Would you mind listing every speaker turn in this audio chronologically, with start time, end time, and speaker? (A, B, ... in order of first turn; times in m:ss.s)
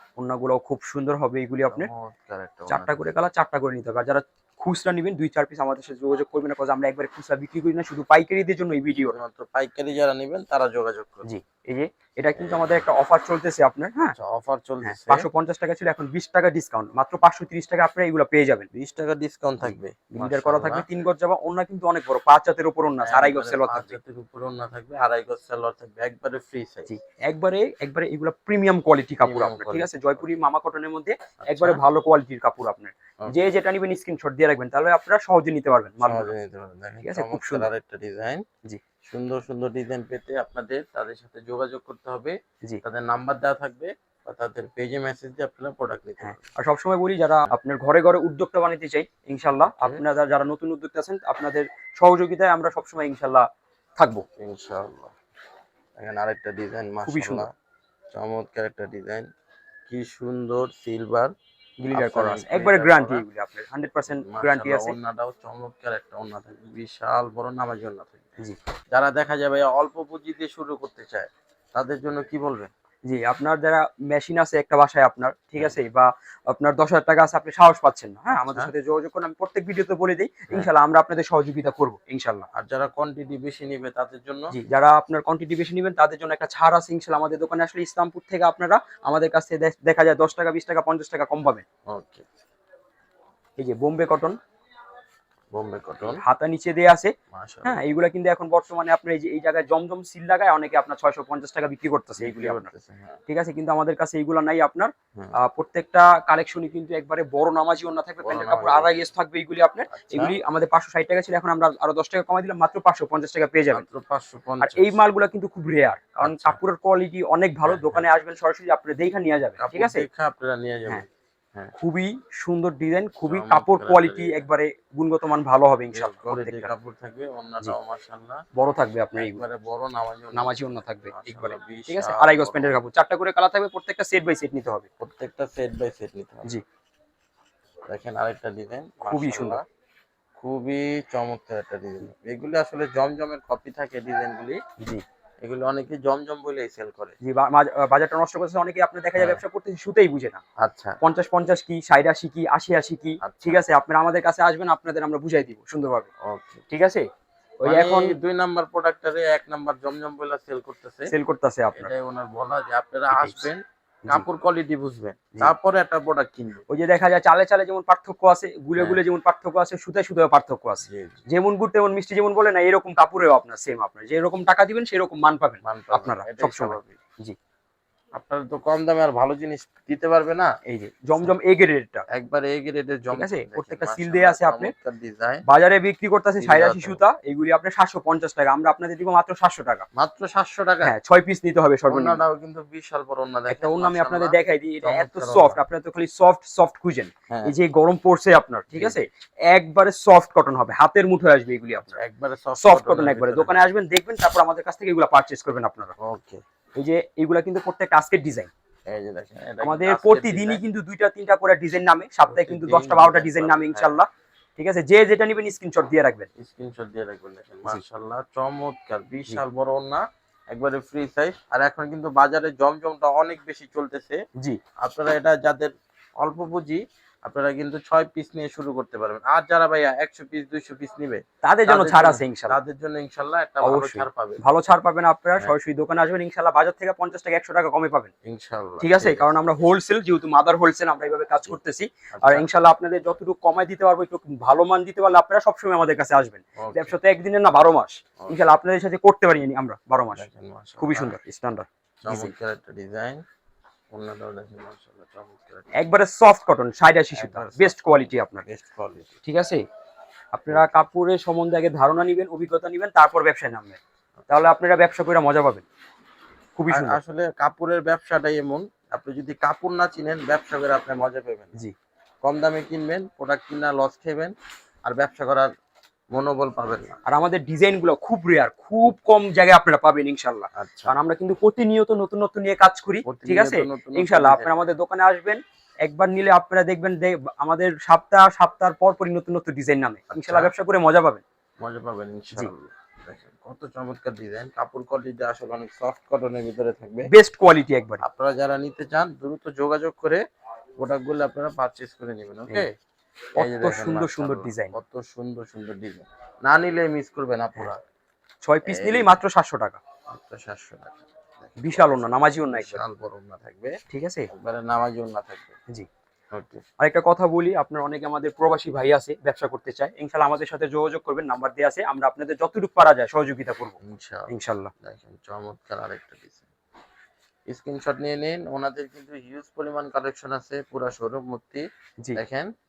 0:00.2-0:01.9 A
0:01.7-0:03.1 B
0:02.7-0:09.2 A
0:09.0-0:11.3 B
0:11.2-0:14.2 A
0:12.4-0:12.9 B
0:14.2-0:15.3 B
0:14.8-0:18.7 A
0:18.7-0:20.9 B
0:19.6-0:24.0 A
0:23.0-0:26.9 B
0:26.9-0:36.3 A
0:29.2-0:30.2 B
0:31.4-0:31.8 B
0:33.2-0:33.5 B
0:36.0-0:38.4 B
0:37.0-0:37.7 A
0:39.0-0:46.5 B
0:46.2-0:53.5 A
0:49.6-0:50.0 B
0:54.0-0:54.2 A
0:54.4-0:55.1 B
0:56.0-0:57.5 B
0:57.1-0:57.5 A
0:58.1-0:59.3 B
0:59.9-1:01.3 B
1:01.8-1:05.0 A
1:01.9-1:03.2 B
1:04.1-1:12.7 B
1:13.0-1:22.5 A
1:18.3-1:18.7 B
1:22.5-1:24.5 B
1:24.5-1:31.6 A
1:31.9-1:32.3 B
1:33.6-1:34.4 A
1:35.5-1:36.2 B
1:36.1-1:37.1 A
1:37.3-1:37.8 B
1:37.6-1:42.7 A
1:42.2-1:43.2 B
1:43.3-1:53.8 A
1:48.2-1:48.9 B
1:49.9-1:50.4 B
1:53.7-1:55.0 B
1:54.6-2:00.1 A
1:56.2-1:56.6 B
1:57.6-1:58.1 B
1:59.6-2:01.8 B
2:01.8-2:06.7 A
2:03.2-2:04.5 B
2:05.9-2:08.4 B
2:08.6-2:09.4 A
2:09.2-2:12.8 B
2:10.3-2:14.9 A
2:15.0-2:16.5 B
2:17.9-2:19.6 B
2:19.1-2:19.6 A
2:20.4-2:24.6 B
2:25.4-2:27.2 B
2:27.2-2:30.4 A
2:30.6-2:31.0 B
2:31.0-2:36.1 A
2:33.2-2:33.6 B
2:36.2-2:36.6 B
2:36.7-2:37.1 A
2:37.6-2:38.2 A
2:37.6-2:41.1 B
2:41.1-2:41.9 A
2:41.8-2:46.6 B
2:43.1-2:43.5 A
2:46.7-2:57.4 A
2:50.8-2:51.2 B
2:55.6-2:57.0 B
2:58.1-3:00.5 B
3:00.7-3:02.1 A
3:02.1-3:05.4 B
3:03.1-3:04.7 A
3:05.5-3:09.8 A
3:06.4-3:07.0 B
3:10.0-3:11.0 B
3:10.8-3:12.2 A
3:11.9-3:15.6 B
3:13.5-3:22.0 A
3:17.3-3:17.6 B
3:18.7-3:19.0 B
3:21.8-3:23.7 B
3:22.6-3:25.9 A
3:26.0-3:26.4 B
3:26.8-3:28.5 A
3:28.9-3:30.6 B
3:29.6-3:36.3 A
3:32.3-3:34.0 B
3:36.4-3:44.2 B
3:44.8-3:54.4 B
3:51.4-3:52.6 A
3:53.6-3:58.1 A
3:58.2-3:59.3 B
3:58.8-4:10.3 A
4:02.2-4:02.5 B
4:06.6-4:07.0 B
4:10.1-4:11.2 B
4:10.8-4:12.3 A
4:12.0-4:13.2 B
4:13.9-4:15.8 B
4:15.7-4:18.5 A
4:17.1-4:19.2 B
4:19.2-4:19.6 A
4:20.3-4:25.6 A
4:20.5-4:20.8 B
4:26.6-4:27.0 A
4:26.7-4:31.6 B
4:32.2-4:34.3 B
4:34.8-4:35.5 B
4:36.1-4:37.0 B
4:37.1-4:51.2 A
4:40.5-4:41.0 B
4:43.0-4:44.7 B
4:50.1-4:50.5 B
4:51.6-4:57.1 B
4:57.1-4:58.0 A
4:58.0-5:00.2 B
5:00.8-5:02.7 B
5:03.4-5:04.8 A
5:03.4-5:07.8 B
5:08.4-5:09.8 A
5:08.6-5:09.2 B
5:10.1-5:13.8 B
5:11.6-5:12.8 A
5:13.9-5:14.3 A
5:14.3-5:15.6 B
5:16.3-5:16.6 B
5:16.8-5:23.8 A
5:23.8-5:24.3 B
5:24.3-5:24.7 A
5:24.8-5:26.5 B
5:27.5-5:32.5 B